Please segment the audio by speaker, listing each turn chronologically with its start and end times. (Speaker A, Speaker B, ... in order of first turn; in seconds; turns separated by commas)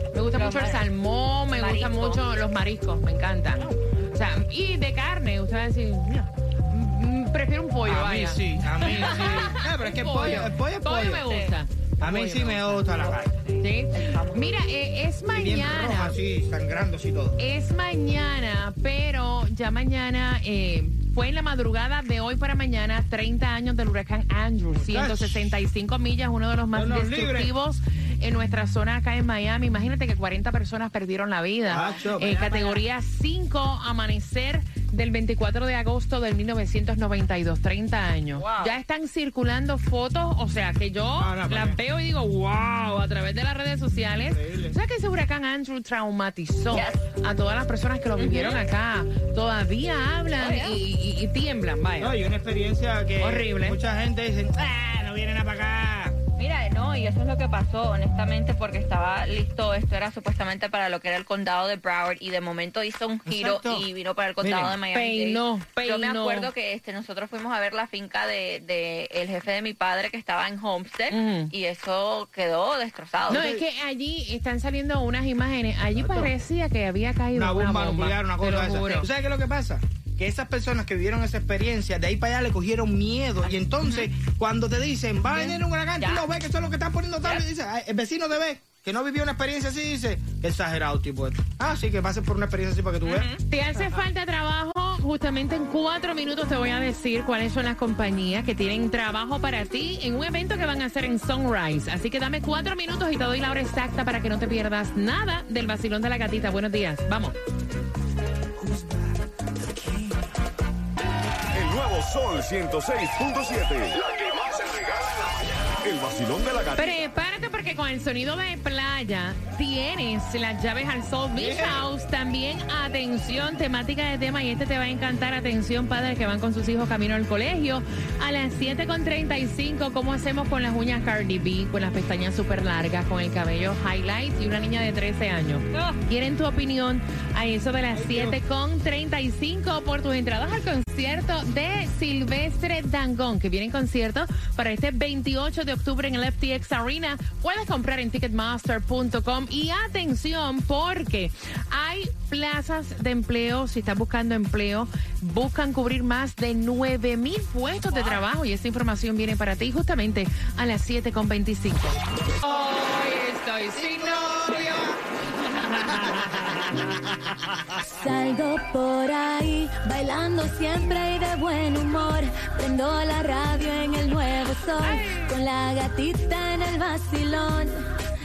Speaker A: 0.1-13.0, Speaker B: 0.4-0.9, Speaker B: 1.6-2.2, Speaker C: 7.8-11.3, Speaker B: 11.3-11.5, Speaker C: 12.0-13.2, Speaker B: 13.0-14.3, Speaker A: 13.6-16.2, Speaker C: 15.3-17.4, Speaker A: 17.4-52.2, Speaker C: 24.8-25.6, Speaker C: 26.7-27.5, Speaker C: 31.7-32.8, Speaker B: 38.4-38.8, Speaker C: 41.2-41.8, Speaker C: 44.3-44.8, Speaker B: 46.7-47.0, Speaker B: 48.2-48.6, Speaker B: 50.4-50.8, Speaker C: 52.0-56.2, Speaker A: 53.2-53.8, Speaker B: 56.4-73.4, Speaker C: 63.3-63.9, Speaker C: 64.4-64.8, Speaker A: 64.9-66.5, Speaker A: 71.1-71.5, Speaker C: 73.3-73.6, Speaker A: 73.3-79.1, Speaker C: 76.0-76.3, Speaker C: 77.3-93.3, Speaker B: 85.3-86.2, Speaker B: 93.0-93.4, Speaker A: 93.5-107.3, Speaker D: 111.5-117.0, Speaker A: 116.8-164.7, Speaker C: 121.3-121.9, Speaker B: 135.7-136.0, Speaker C: 137.9-138.4, Speaker C: 163.7-165.0, Speaker A: 165.2-166.3, Speaker C: 165.9-166.8, Speaker E: 167.8-177.8, Speaker A: 174.8-175.3